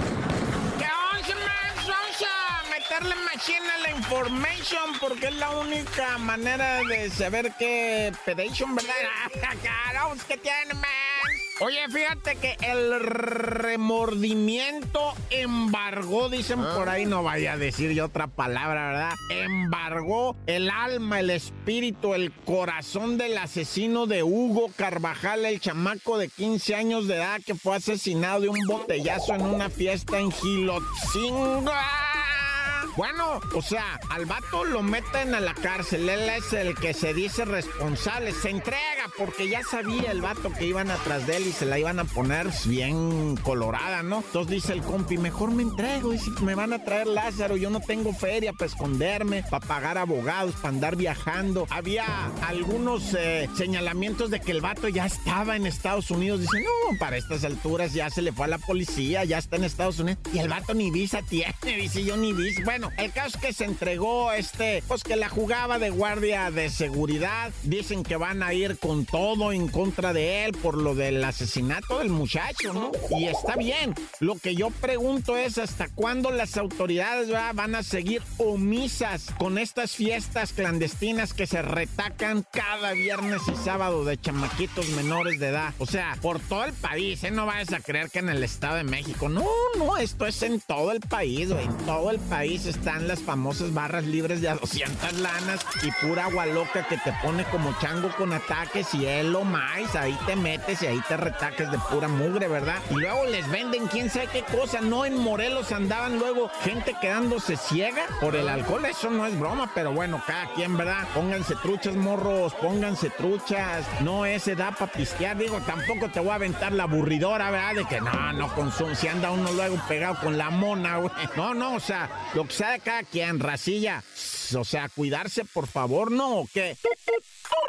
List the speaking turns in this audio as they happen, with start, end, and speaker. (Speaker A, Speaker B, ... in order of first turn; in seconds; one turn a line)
Speaker A: 0.8-126.8